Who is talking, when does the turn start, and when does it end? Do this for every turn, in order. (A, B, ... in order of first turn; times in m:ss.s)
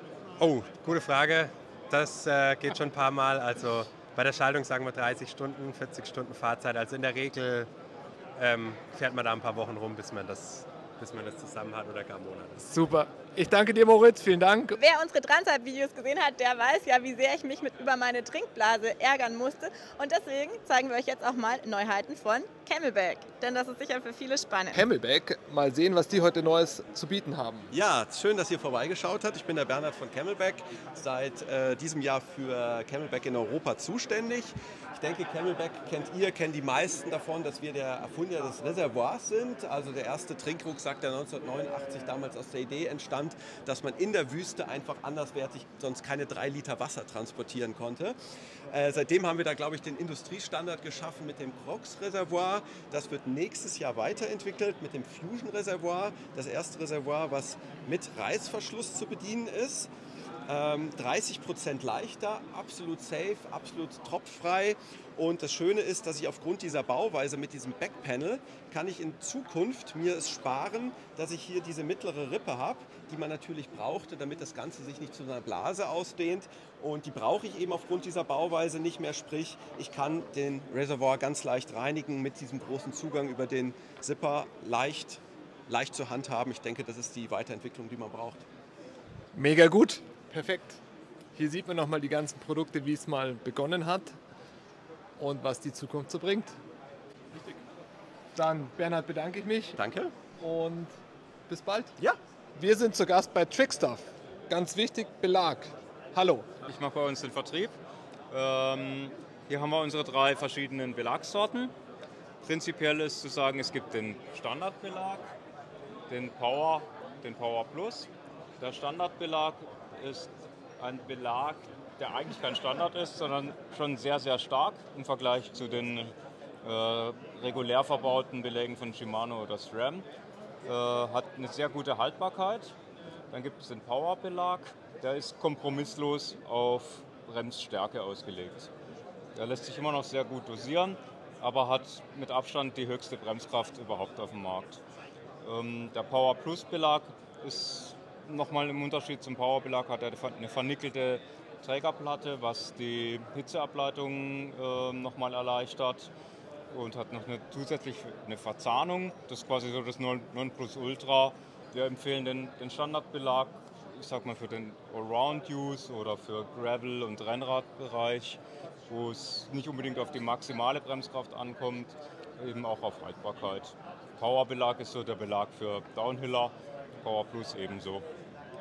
0:00.4-0:07.7 A
0:08.4-0:12.6 A
0:12.6-0:14.8 B
0:14.8-0:24.8 C
0:24.7-0:27.7 B
0:27.7-0:48.2 D
0:48.7-0:59.9 D
1:00.5-1:28.4 D
1:29.3-1:30.8 B
1:31.4-1:34.2 B
1:35.2-1:36.6 B
1:38.4-1:39.8 B
1:39.8-1:40.1 D
1:40.4-1:40.9 B
1:41.5-1:41.9 B
1:42.6-1:46.6 B
1:46.6-1:47.8 E
1:48.3-1:51.7 E
1:52.4-1:55.3 E
1:56.1-2:10.0 E
2:10.6-2:12.8 E
2:13.3-2:18.7 E
2:19.4-2:24.8 E
2:25.4-2:36.1 E
2:36.7-2:58.1 E